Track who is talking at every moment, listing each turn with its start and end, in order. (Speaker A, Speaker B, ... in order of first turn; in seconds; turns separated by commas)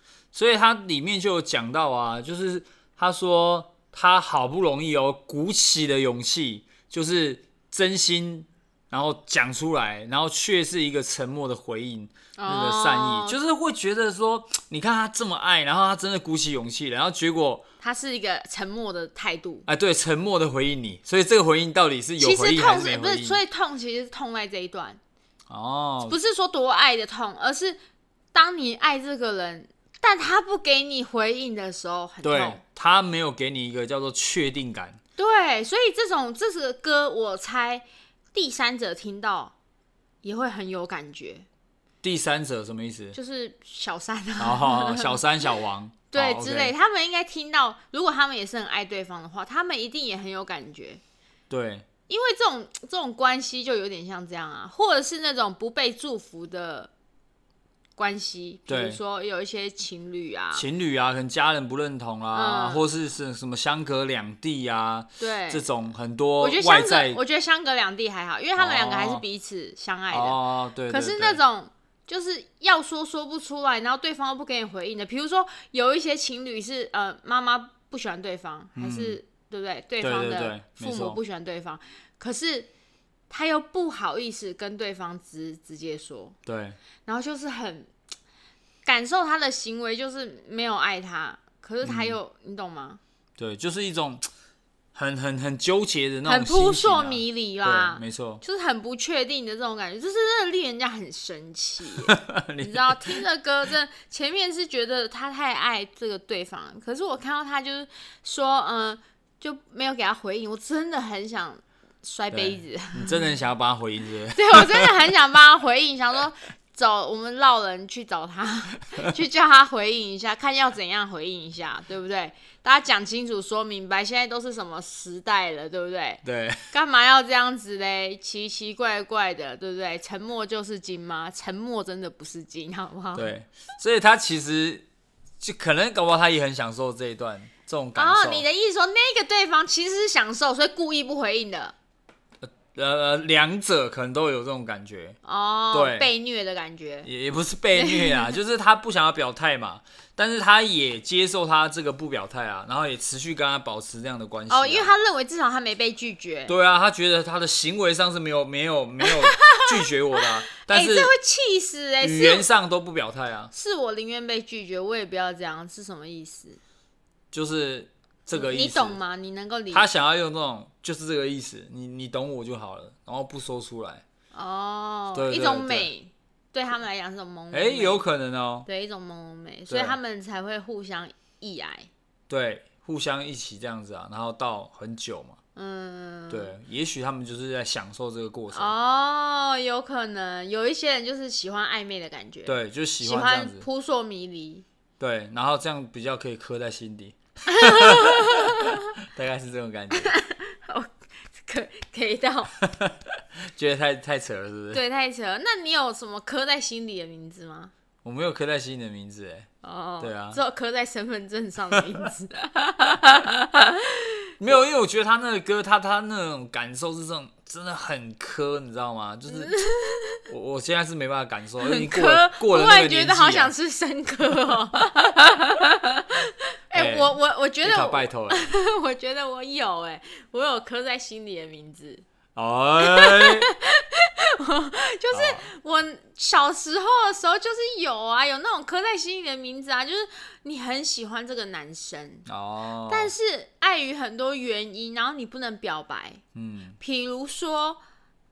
Speaker A: 0.3-17.6, Speaker B: 12.4-13.4, Speaker B: 17.8-19.7, Speaker A: 19.7-23.4, Speaker B: 22.2-25.0, Speaker A: 25.5-26.2, Speaker B: 26.0-27.8, Speaker B: 28.3-32.6, Speaker A: 32.2-35.0, Speaker B: 35.2-39.5, Speaker B: 40.2-41.5, Speaker A: 42.0-43.2, Speaker B: 43.1-45.2, Speaker A: 44.4-46.7, Speaker B: 46.1-51.0, Speaker A: 51.5-51.9, Speaker B: 52.1-56.9, Speaker B: 58.0-60.7, Speaker A: 58.7-59.0, Speaker A: 60.5-67.2, Speaker B: 62.3-62.9, Speaker B: 65.2-65.7, Speaker B: 66.4-82.7, Speaker A: 68.6-69.2, Speaker A: 70.1-71.4, Speaker A: 78.8-79.2, Speaker A: 80.0-81.2, Speaker B: 83.3-86.4, Speaker A: 86.5-86.8, Speaker B: 87.1-87.9, Speaker B: 88.8-93.0, Speaker A: 91.8-92.2, Speaker A: 93.4-94.3, Speaker A: 94.9-98.4, Speaker B: 96.2-113.3, Speaker A: 102.1-103.2, Speaker A: 112.3-114.9, Speaker B: 114.3-133.3, Speaker A: 126.2-126.7, Speaker A: 133.2-134.8, Speaker A: 135.4-138.5, Speaker B: 138.0-141.7, Speaker A: 142.4-145.2, Speaker B: 145.2-147.1, Speaker A: 145.7-146.1, Speaker A: 147.0-154.9, Speaker B: 147.7-148.4, Speaker B: 154.5-156.5, Speaker A: 156.5-161.1, Speaker B: 159.4-159.8, Speaker B: 160.6-162.5, Speaker A: 162.0-163.5, Speaker B: 163.5-166.6, Speaker A: 167.3-169.0, Speaker B: 168.3-169.9, Speaker A: 169.7-174.0, Speaker B: 174.3-178.0, Speaker A: 175.1-175.9, Speaker A: 177.5-178.7, Speaker B: 178.7-181.9, Speaker A: 179.7-180.0, Speaker A: 182.3-185.4, Speaker B: 185.6-186.5, Speaker A: 186.3-188.7, Speaker B: 188.5-194.7, Speaker A: 192.5-193.7, Speaker A: 195.0-200.2, Speaker B: 197.5-198.8, Speaker B: 199.9-202.5, Speaker A: 202.7-202.9, Speaker A: 203.5-204.8, Speaker B: 204.7-207.7, Speaker A: 208.0-209.5, Speaker B: 209.6-213.9, Speaker A: 210.0-210.4, Speaker A: 214.4-219.5, Speaker B: 219.3-220.2, Speaker A: 220.3-223.5, Speaker B: 221.6-232.0, Speaker A: 226.7-228.5, Speaker A: 232.3-233.5, Speaker B: 232.8-242.3, Speaker A: 235.1-235.4, Speaker A: 242.3-243.1, Speaker B: 242.9-246.2, Speaker A: 246.3-246.8, Speaker B: 246.8-247.8